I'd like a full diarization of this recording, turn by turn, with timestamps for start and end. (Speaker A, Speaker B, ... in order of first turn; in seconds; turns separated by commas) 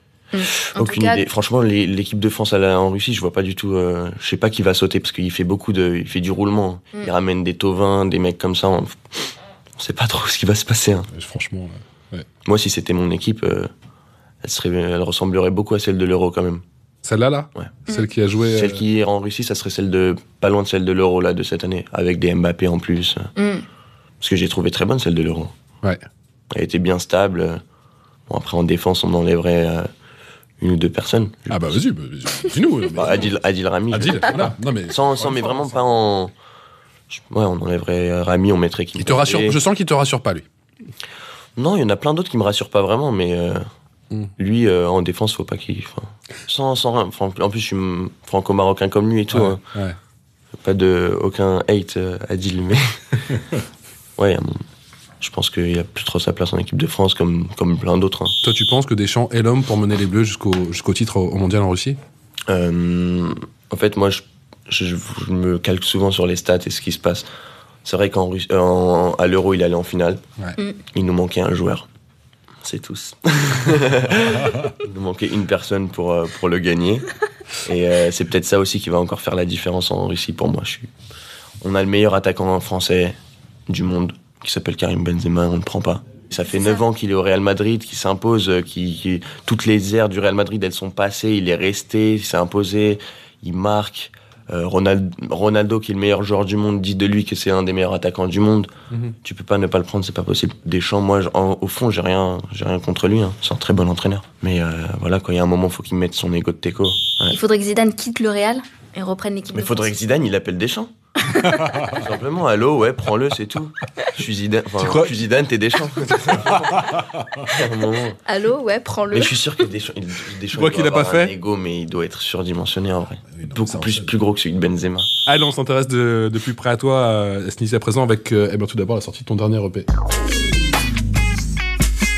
Speaker A: 0.3-1.2, Speaker B: 0.4-9.0, Speaker B: 9.8-11.1, Speaker C: 11.1-12.2, Speaker B: 12.4-13.7, Speaker B: 14.4-16.6, Speaker C: 17.0-18.8, Speaker B: 18.5-23.3, Speaker A: 23.4-23.6, Speaker B: 24.2-25.5, Speaker B: 26.5-27.6, Speaker B: 28.3-29.9, Speaker B: 30.6-31.8, Speaker C: 31.5-33.3, Speaker B: 32.9-36.3, Speaker C: 33.9-35.8, Speaker B: 37.1-39.6, Speaker C: 39.0-40.4, Speaker B: 41.6-43.7, Speaker B: 44.4-49.6, Speaker C: 49.3-50.0, Speaker B: 50.6-53.0, Speaker B: 54.2-54.6, Speaker B: 55.2-58.4, Speaker C: 58.4-62.0, Speaker B: 62.5-67.2, Speaker B: 67.8-70.2, Speaker B: 70.9-71.8, Speaker B: 72.6-77.1, Speaker B: 77.6-80.9, Speaker B: 81.6-83.2, Speaker B: 83.7-98.7, Speaker B: 99.2-107.4, Speaker A: 107.3-109.9, Speaker B: 109.5-110.9, Speaker B: 111.8-116.8, Speaker C: 114.8-115.1, Speaker C: 116.5-117.0, Speaker B: 117.5-118.2, Speaker A: 118.2-119.3, Speaker B: 119.1-125.1, Speaker C: 120.5-121.3, Speaker C: 123.3-124.1, Speaker C: 125.2-129.9